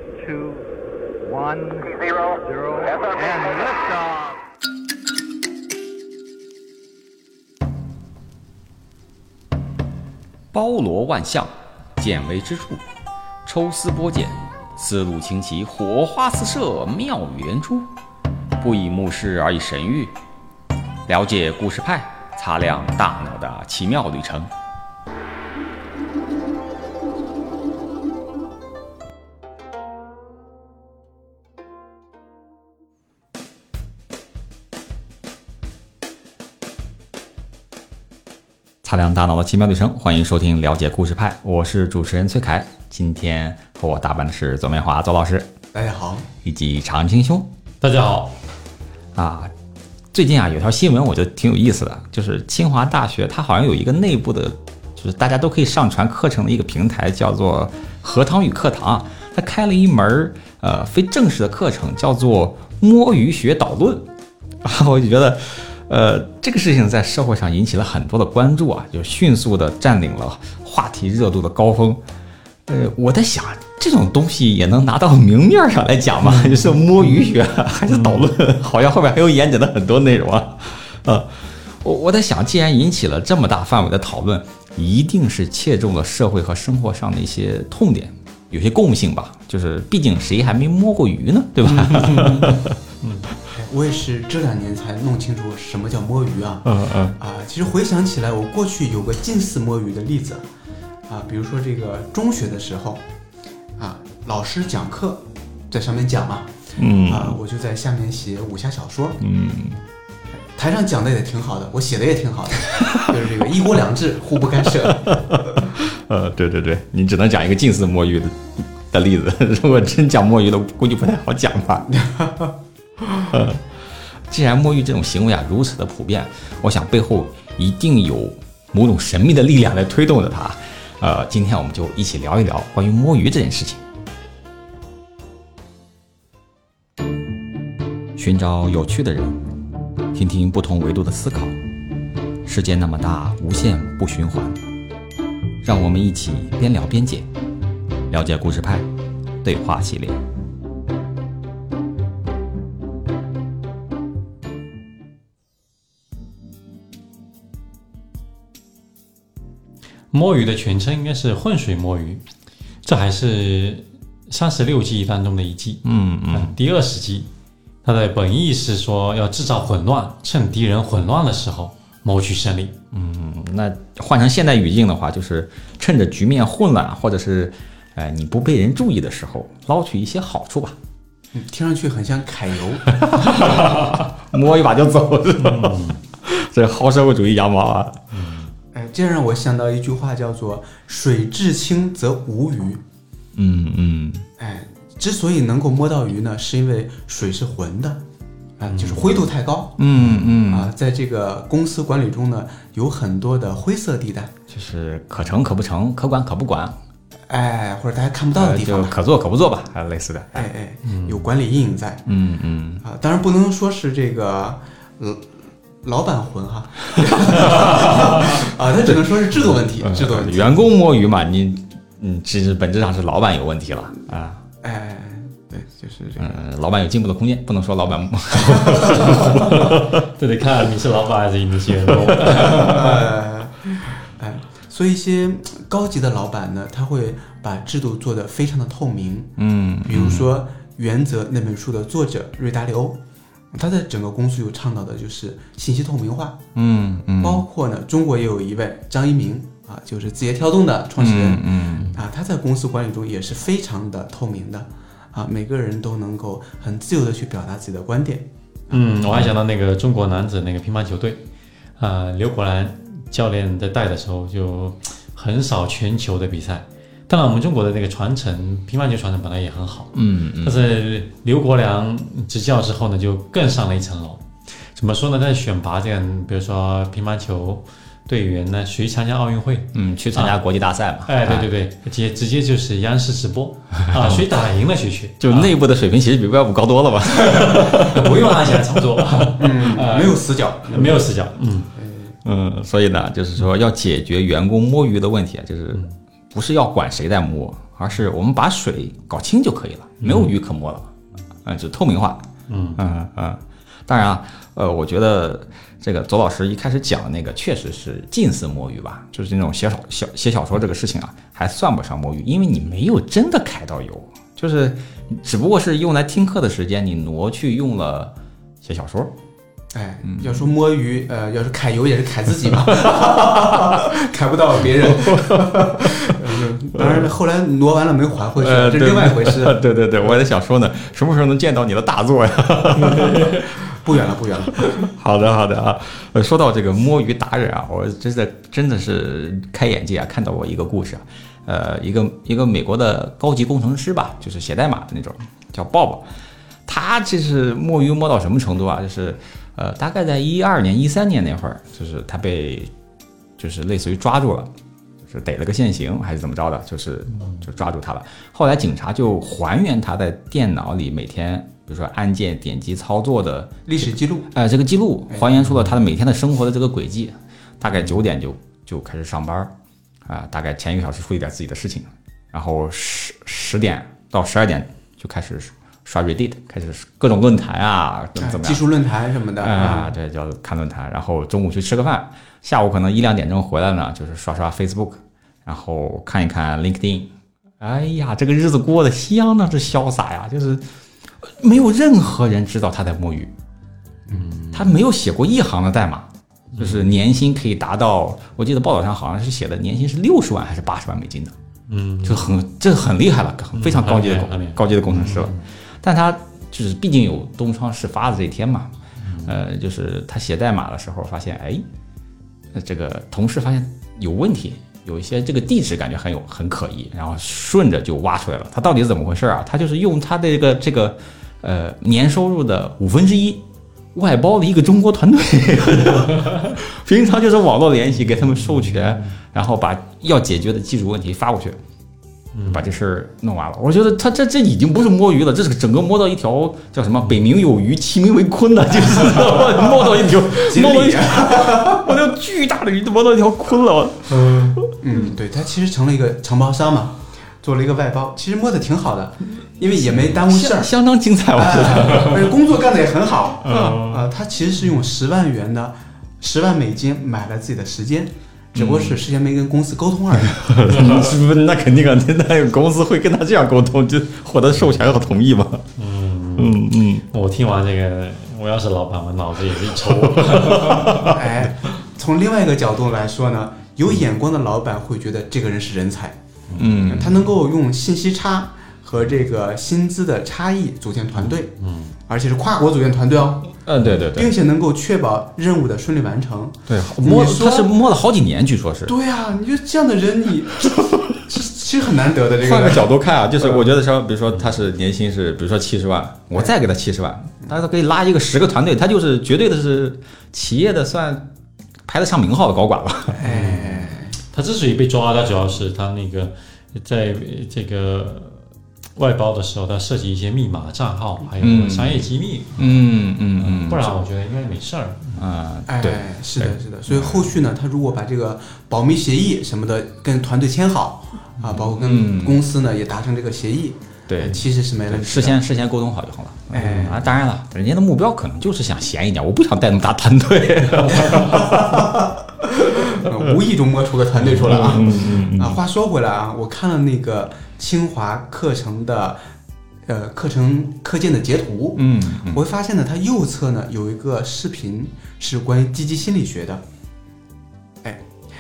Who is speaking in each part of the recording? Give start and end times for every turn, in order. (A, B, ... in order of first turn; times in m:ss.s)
0:00.2-0:00.7 A
0:01.2-0:04.4 A
0:10.5-0:12.8 B
0:13.4-0:17.9 B
0:18.6-0:20.1 B
0:21.1-0:24.5 B
0:38.8-0:45.5 B
0:45.7-0:46.2 C
0:46.4-0:47.5 B
0:47.8-0:48.3 D
0:49.1-0:49.5 B
0:50.1-1:04.0 B
1:04.6-1:12.0 B
1:12.7-1:32.8 B
1:16.4-1:16.8 D
1:18.0-1:18.3 D
1:31.8-1:33.2 D
1:33.5-1:40.4 C
1:36.6-1:37.1 B
1:41.1-1:43.0 C
1:43.8-1:46.5 C
1:46.8-1:47.4 B
1:47.1-1:49.2 C
1:49.2-1:49.8 B
1:50.6-1:55.2 C
1:54.8-2:01.9 B
2:01.9-2:02.5 C
2:03.2-2:03.7 B
2:04.3-2:13.8 B
2:18.2-2:19.4 B
2:20.1-2:21.6 B
2:22.4-2:24.6 B
2:25.6-2:27.3 B
2:28.1-2:28.9 B
2:29.4-2:30.2 B
2:40.1-2:42.2 D
2:42.8-2:47.3 D
2:45.8-2:46.5 B
2:47.8-2:52.8 D
2:52.9-3:00.8 B
3:01.3-3:03.4 C
3:03.0-3:08.0 B
3:05.4-3:06.0 D
3:08.1-3:08.5 D
3:08.7-3:12.8 C
3:13.4-3:14.2 B
3:14.4-3:18.0 C
3:18.6-3:24.3 C
3:18.7-3:19.2 B
3:19.8-3:20.7 B
3:24.5-3:26.8 B
3:27.3-3:29.0 C
3:28.3-3:30.5 B
3:30.3-3:32.1 C
3:30.8-3:31.2 D
3:32.1-3:32.8 B
3:32.8-3:40.6 C
3:37.4-3:38.4 B
3:39.4-3:44.4 B
3:44.6-3:46.4 C
3:46.2-3:50.0 B
3:48.4-3:49.0 C
3:49.2-3:53.1 D
3:52.2-3:52.6 B
3:52.5-4:03.0 C
3:59.4-4:00.3 B
4:03.5-4:06.4 C
4:06.6-4:07.4 B
4:07.2-4:18.8 C
4:11.0-4:11.9 B
4:18.7-4:21.2 D
4:21.8-4:34.2 D
4:29.9-4:30.7 B
4:34.7-4:40.4 D
4:39.7-4:41.5 B
4:41.0-4:45.5 D
4:45.2-4:48.4 B
4:47.2-4:51.7 D
4:49.4-4:51.0 C
4:51.8-4:52.1 C
4:52.2-5:00.9 B
5:00.0-5:00.3 D
5:01.4-5:19.1 B
5:02.5-5:02.8 D
5:19.7-5:29.6 C
5:22.8-5:23.8 B
5:24.7-5:26.2 B
5:26.8-5:27.0 B
5:28.4-5:33.5 B
5:33.0-5:34.9 C
5:34.6-5:46.0 B
5:46.6-5:52.7 B
5:53.4-5:54.5 B
5:55.0-6:09.5 B
6:03.6-6:04.3 C
6:10.0-6:18.6 B
6:18.2-6:19.9 C
6:19.4-6:27.1 B
6:27.6-6:30.6 B
6:31.2-6:33.3 B
6:34.1-6:34.7 D
6:34.5-6:41.3 B
6:36.5-6:36.8 D
6:41.7-6:42.3 D
6:42.0-6:48.7 B
6:43.5-6:45.4 D
6:49.0-6:49.3 D
6:49.2-6:51.6 B
6:52.5-7:03.4 B
7:03.9-7:11.6 B
7:12.3-7:12.6 D
7:12.4-7:24.7 B
7:19.0-7:22.0 C
7:24.3-7:30.7 C
7:29.9-7:32.3 B
7:31.3-7:40.5 C
7:33.4-7:34.0 B
7:38.5-7:39.0 B
7:40.2-7:45.7 B
7:40.7-7:41.0 D
7:45.8-7:46.6 D
7:46.4-7:47.0 B
7:47.1-7:51.1 D
7:49.9-7:51.2 B
7:51.0-8:01.5 C
7:56.5-7:56.8 D
7:56.6-7:57.3 B
8:01.6-8:01.9 D
8:02.1-8:07.7 C
8:03.6-8:04.4 B
8:06.7-8:08.9 B
8:08.9-8:13.6 C
8:12.4-8:21.3 B
8:21.9-8:23.3 B
8:23.2-8:24.1 C
8:23.2-8:28.4 D
8:29.0-8:35.2 D
8:31.4-8:34.0 B
8:35.2-8:37.3 B
8:35.7-8:45.4 C
8:41.8-8:42.4 B
8:44.1-8:51.9 B
8:46.5-8:47.1 C
8:50.9-8:59.2 C
8:54.2-8:55.6 B
8:59.9-9:06.6 C
9:01.8-9:02.4 B